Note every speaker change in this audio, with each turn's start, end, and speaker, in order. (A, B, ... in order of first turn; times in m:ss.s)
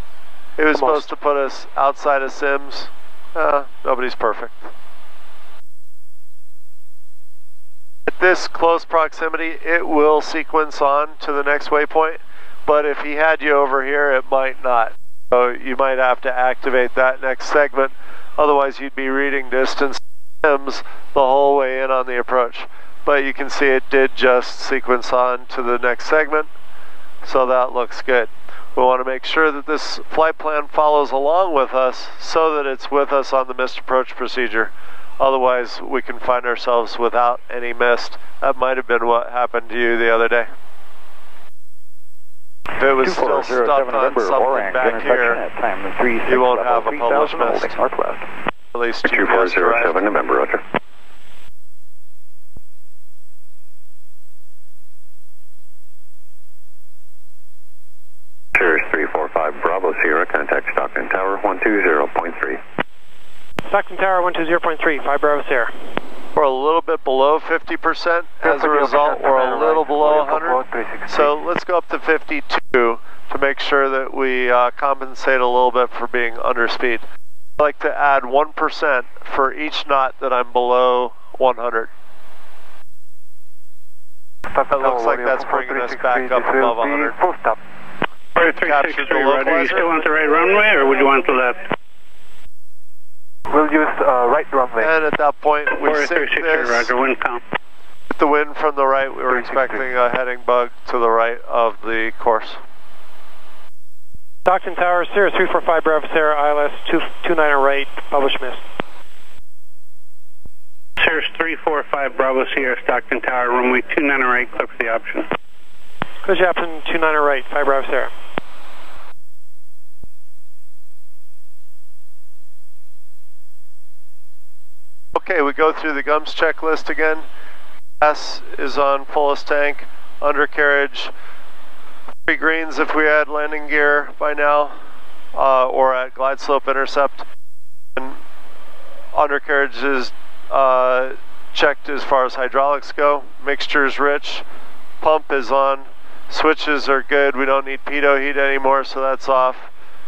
0:00.6-0:04.7 A
0:00.8-0:01.0 B
0:08.1-0:26.5 A
0:27.2-0:40.5 A
0:42.8-0:45.4 A
0:43.0-0:48.2 C
0:46.2-0:47.8 A
0:48.7-0:50.1 A
0:49.0-0:50.6 D
0:58.5-1:02.6 D
1:03.7-1:05.7 B
1:06.3-1:17.0 A
1:08.4-1:11.3 E
1:17.6-1:21.9 A
1:24.5-1:27.6 E
1:24.7-1:27.2 A
1:28.4-1:31.7 F
1:28.5-1:29.9 A
1:33.5-1:35.0 E
1:34.8-1:36.9 A
1:35.7-1:37.4 F
1:38.1-1:42.6 A
1:39.3-1:39.8 E
1:44.4-1:48.6 B
1:51.0-1:55.3 F
1:56.2-1:58.1 B
2:05.1-2:07.2 A
2:08.0-2:11.1 A
2:12.2-2:14.7 A
2:15.3-2:17.3 A
2:19.1-2:24.4 A
2:25.0-2:29.7 A